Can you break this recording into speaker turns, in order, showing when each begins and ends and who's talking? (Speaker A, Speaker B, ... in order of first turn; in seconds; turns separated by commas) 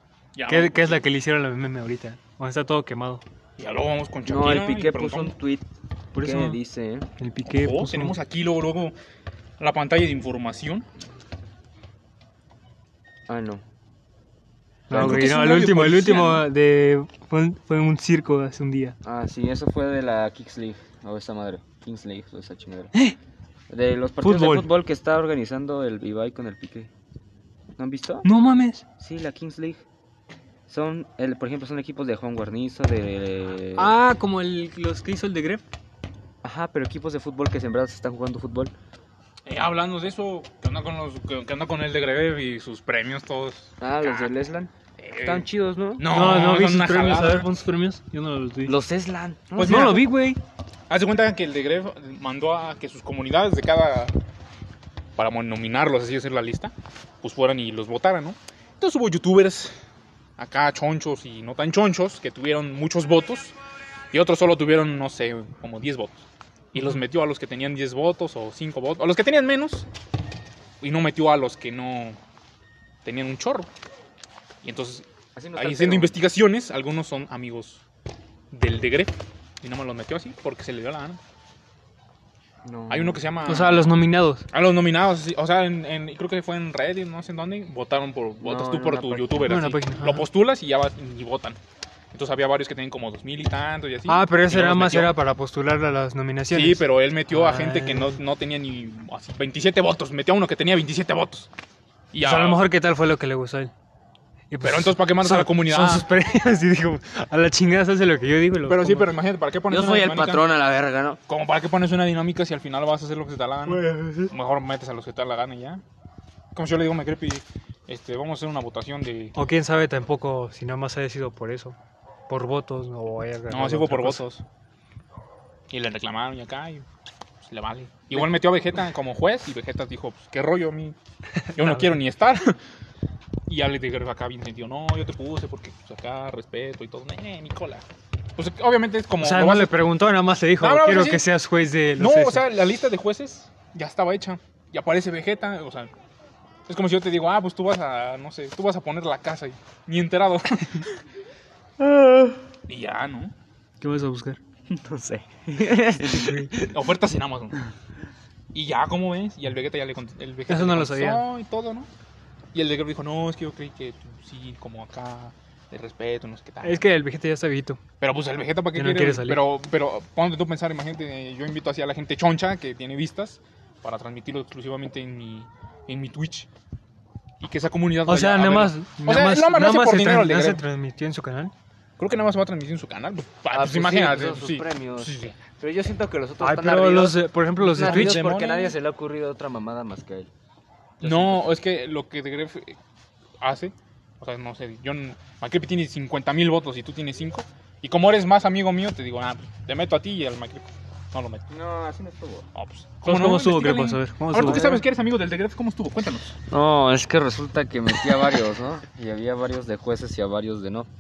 Speaker A: 0.3-1.0, Speaker B: 0.5-3.2, Speaker A: 3.6-5.3, Speaker C: 4.3-7.1, Speaker B: 6.1-6.6, Speaker B: 7.2-8.2, Speaker A: 7.5-8.9, Speaker A: 9.6-10.9, Speaker C: 13.3-13.6, Speaker B: 14.9-19.0, Speaker C: 14.9-15.5, Speaker A: 14.9-16.5, Speaker C: 19.0-22.9, Speaker C: 23.7-26.9, Speaker B: 24.2-24.7, Speaker C: 27.8-28.3, Speaker B: 28.2-28.8, Speaker C: 29.0-29.8, Speaker C: 30.7-34.0, Speaker B: 33.8-35.6, Speaker C: 36.4-38.7, Speaker A: 39.5-44.3, Speaker C: 43.8-44.7, Speaker A: 45.0-45.5, Speaker C: 45.2-46.2, Speaker A: 46.0-47.5, Speaker B: 46.1-48.8, Speaker C: 48.7-50.1, Speaker A: 49.5-50.1, Speaker B: 49.7-50.4, Speaker A: 50.9-54.1, Speaker A: 55.2-59.8, Speaker A: 60.4-63.5, Speaker A: 64.1-69.9, Speaker B: 66.8-67.0, Speaker A: 70.8-72.2, Speaker A: 73.0-73.7, Speaker A: 74.6-77.8, Speaker C: 75.3-76.2, Speaker A: 78.5-81.2, Speaker C: 82.6-83.3, Speaker A: 82.9-83.9, Speaker B: 83.5-84.5, Speaker A: 84.5-91.6, Speaker C: 88.4-89.6, Speaker B: 89.4-90.3, Speaker A: 92.1-95.2, Speaker B: 94.1-98.2, Speaker A: 96.5-101.5, Speaker A: 102.1-102.7, Speaker B: 102.2-103.7, Speaker B: 104.5-109.1, Speaker A: 104.6-106.1, Speaker A: 108.7-110.5, Speaker C: 109.7-111.2, Speaker A: 111.3-115.8, Speaker B: 113.7-114.3, Speaker A: 116.5-119.4, Speaker B: 119.3-121.8, Speaker B: 122.3-124.2, Speaker A: 123.5-124.4, Speaker A: 125.7-126.9, Speaker A: 127.4-131.0, Speaker B: 131.5-132.0, Speaker A: 131.6-132.6, Speaker A: 133.5-137.8, Speaker A: 138.4-139.8, Speaker B: 139.2-142.5, Speaker A: 140.6-141.2, Speaker A: 142.0-145.9, Speaker A: 146.7-150.9, Speaker C: 151.8-152.4, Speaker A: 152.7-153.3, Speaker B: 153.8-154.4, Speaker C: 154.7-156.8, Speaker B: 156.0-156.5, Speaker A: 156.6-157.6, Speaker A: 158.5-161.9, Speaker B: 160.5-161.3, Speaker A: 162.5-166.9, Speaker B: 166.6-167.8, Speaker A: 168.0-176.5, Speaker B: 168.7-169.4, Speaker A: 177.4-180.6, Speaker B: 178.1-181.5, Speaker A: 182.0-185.3, Speaker C: 183.5-190.3, Speaker B: 186.4-188.2, Speaker A: 187.6-188.7, Speaker C: 191.0-191.6, Speaker A: 191.0-192.8, Speaker A: 193.4-201.4, Speaker C: 201.5-202.5, Speaker A: 202.5-206.4, Speaker B: 203.0-204.8, Speaker C: 204.4-204.8, Speaker C: 206.5-210.9